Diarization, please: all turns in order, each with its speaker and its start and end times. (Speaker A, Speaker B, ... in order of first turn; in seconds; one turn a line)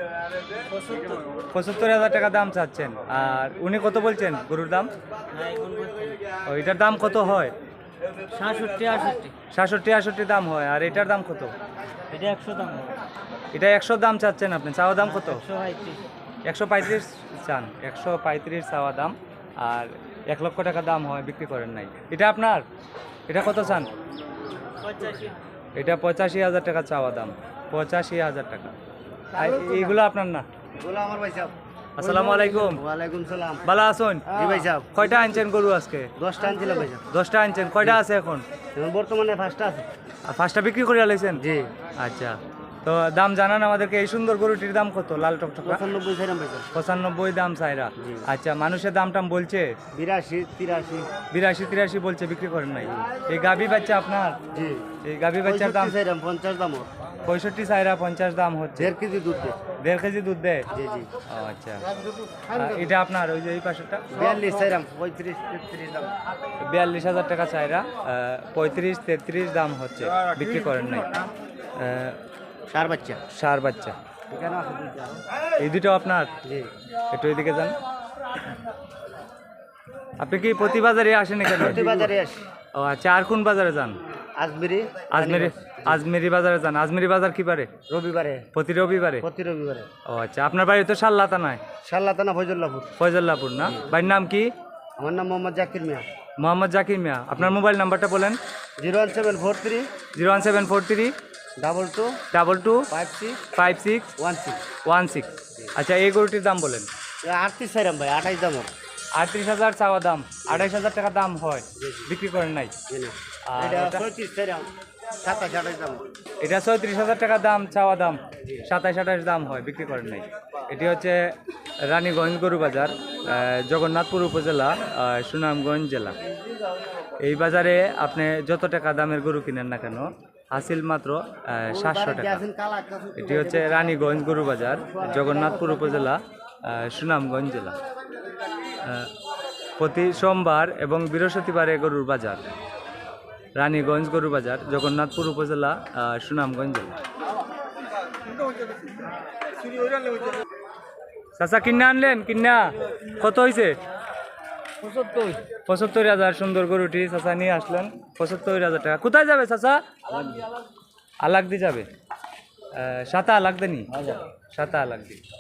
Speaker A: 0.7-1.2
Speaker B: 1.5-4.9
Speaker A: 5.3-6.2
Speaker B: 6.5-7.5
Speaker A: 8.3-9.3
Speaker B: 9.5-11.5
Speaker A: 12.1-13.0
Speaker B: 13.5-15.4
Speaker A: 15.0-16.1
Speaker B: 16.5-22.6
Speaker B: 23.3-23.9
Speaker A: 24.8-25.4
Speaker B: 25.8-28.7
Speaker C: 29.4-30.0
Speaker B: 29.4-30.5
Speaker C: 30.8-33.7
Speaker B: 32.0-32.8
Speaker B: 33.6-34.4
Speaker C: 34.3-35.4
Speaker B: 34.9-36.1
Speaker C: 36.2-37.1
Speaker B: 37.1-38.5
Speaker C: 38.8-39.9
Speaker B: 40.3-41.5
Speaker C: 41.4-41.7
Speaker B: 42.0-45.8
Speaker C: 45.6-46.7
Speaker B: 46.7-49.8
Speaker C: 48.0-48.2
Speaker C: 49.9-51.1
Speaker B: 51.3-54.4
Speaker C: 54.5-54.9
Speaker B: 55.0-56.0
Speaker C: 55.4-56.9
Speaker B: 57.2-58.9
Speaker C: 58.8-59.6
Speaker B: 59.8-60.7
Speaker C: 60.7-61.1
Speaker B: 61.3-61.9
Speaker B: 62.5-64.2
Speaker C: 64.1-66.2
Speaker B: 66.6-71.2
Speaker B: 71.8-72.2
Speaker C: 72.7-73.2
Speaker B: 73.3-74.0
Speaker C: 74.3-75.2
Speaker B: 75.6-76.3
Speaker C: 76.4-76.7
Speaker B: 77.1-77.8
Speaker B: 80.2-82.1
Speaker C: 81.5-82.4
Speaker B: 82.7-84.0
Speaker C: 84.4-86.0
Speaker B: 85.1-87.7
Speaker C: 87.9-88.5
Speaker B: 88.5-89.3
Speaker C: 89.2-89.9
Speaker B: 90.0-91.6
Speaker C: 91.8-92.9
Speaker B: 93.0-94.5
Speaker C: 93.6-93.9
Speaker C: 95.0-96.0
Speaker B: 96.4-98.4
Speaker C: 98.8-99.9
Speaker B: 100.2-101.1
Speaker C: 101.6-102.2
Speaker B: 102.3-102.9
Speaker C: 102.9-103.4
Speaker B: 103.5-104.1
Speaker C: 104.2-104.6
Speaker B: 104.8-106.9
Speaker C: 107.2-108.7
Speaker B: 109.2-112.8
Speaker C: 111.8-112.1
Speaker C: 112.9-116.0
Speaker B: 113.5-114.0
Speaker B: 116.4-121.3
Speaker B: 121.9-126.2
Speaker B: 127.2-132.4
Speaker C: 131.7-136.1
Speaker B: 133.2-137.8
Speaker B: 138.8-139.1
Speaker B: 139.8-142.4
Speaker B: 143.6-146.9
Speaker B: 151.4-153.8
Speaker A: 154.8-155.4
Speaker B: 155.7-159.9
Speaker A: 160.1-160.4
Speaker B: 161.2-161.9
Speaker B: 162.7-165.2